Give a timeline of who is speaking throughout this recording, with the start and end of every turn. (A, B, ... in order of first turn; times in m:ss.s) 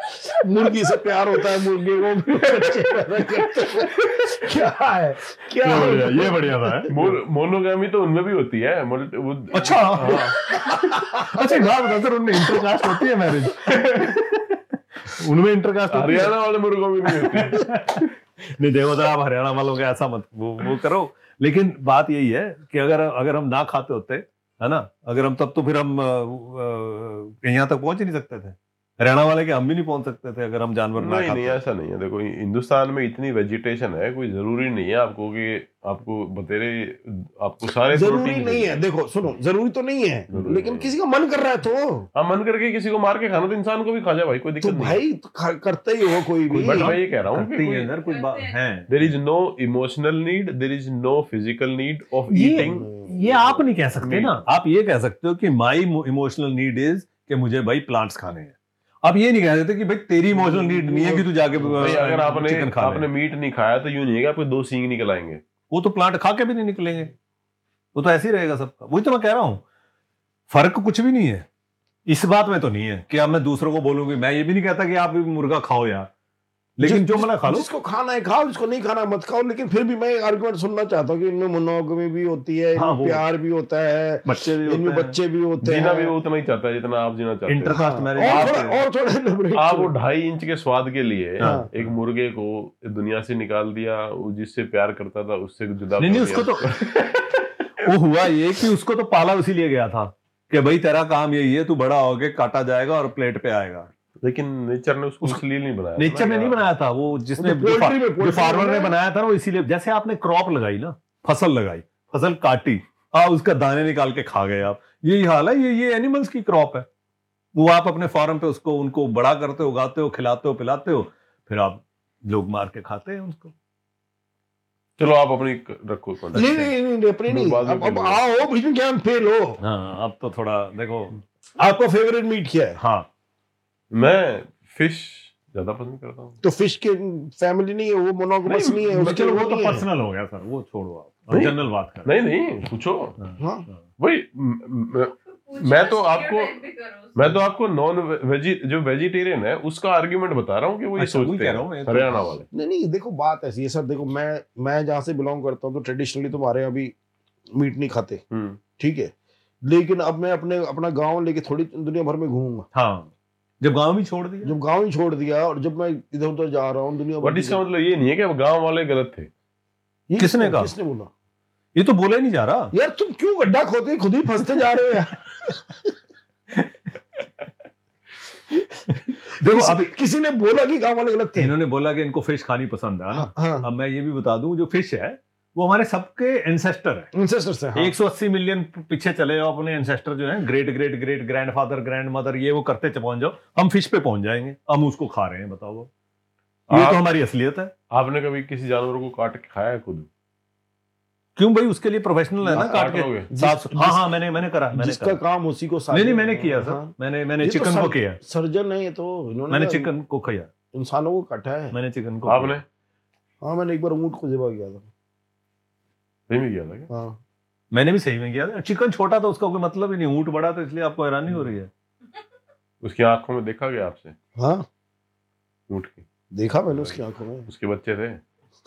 0:00.2-0:06.9 A
0:02.4-0:04.7 B
0:05.6-0:07.2 B
0:05.7-0:06.0 C
0:06.9-0:10.4 C
0:09.5-0:16.3 B
0:11.0-0:11.7 A
0:15.9-0:17.7 C
0:17.1-0:31.6 B
0:31.0-0:38.8 C
0:37.9-0:42.1 A
0:40.3-0:40.9 C
0:42.2-0:45.0 C
0:44.6-0:47.0 A
0:46.5-0:48.9 B
0:46.6-0:48.0 C
0:48.0-0:48.6 D
0:48.9-0:53.3 C
0:52.3-1:03.1 B
0:52.6-0:53.5 A
0:54.0-0:54.4 C
1:00.3-1:02.1 A
1:01.8-1:05.4 C
1:05.7-1:07.1 B
1:08.0-1:09.6 B
1:10.5-1:11.5 B
1:12.1-1:16.1 B
1:16.8-1:17.7 B
1:16.8-1:26.1 A
1:22.8-1:23.2 B
1:24.2-1:25.2 B
1:25.6-1:28.6 C
1:27.5-1:28.8 B
1:27.7-1:29.9 A
1:29.6-1:37.0 C
1:31.4-1:31.9 B
1:31.4-1:31.7 A
1:36.0-1:43.9 B
1:44.2-1:46.6 C
1:46.0-1:56.9 B
1:47.4-1:48.9 A
1:57.5-2:03.5 B
2:05.0-2:06.7 C
2:06.3-2:09.6 A
2:06.4-2:06.7 B
2:07.3-2:08.2 C
2:09.6-2:11.2 B
2:11.6-2:12.8 A
2:12.8-2:13.1 B
2:13.9-2:16.4 C
2:16.4-2:19.9 A
2:18.4-2:18.9 C
2:18.9-2:22.1 B
2:21.3-2:23.2 C
2:23.2-2:23.8 B
2:23.4-2:23.7 A
2:24.0-2:26.6 C
2:25.3-2:27.4 D
2:27.2-2:32.5 C
2:31.0-2:32.2 B
2:32.5-2:36.9 A
2:37.5-2:38.2 A
2:38.3-2:38.6 C
2:38.8-2:39.1 A
2:39.6-2:42.7 A
2:42.7-2:44.5 B
2:44.4-2:47.6 A
2:47.2-2:49.3 C
2:50.1-2:51.1 A
2:50.2-2:50.7 B
2:51.8-2:52.7 B
2:52.7-2:55.6 A
2:58.9-2:59.9 B
2:59.3-3:01.5 A
3:01.4-3:07.1 B
3:03.1-3:03.7 A
3:07.1-3:08.0 A
3:07.8-3:15.9 B
3:16.7-3:17.7 B
3:17.9-3:20.1 C
3:21.4-3:25.2 B
3:22.5-3:23.3 C
3:22.5-3:24.1 A
3:24.7-3:29.9 A
3:25.9-3:28.2 B
3:29.5-3:30.5 B
3:30.7-3:31.8 A
3:31.7-3:32.6 B
3:32.3-3:32.6 C
3:33.4-3:34.9 A
3:36.3-3:36.9 C
3:36.9-3:37.2 A
3:37.7-3:41.7 B
3:42.8-3:44.2 C
3:44.4-3:44.7 A
3:45.7-3:46.0 C
3:46.3-3:47.5 A
3:46.7-3:48.2 C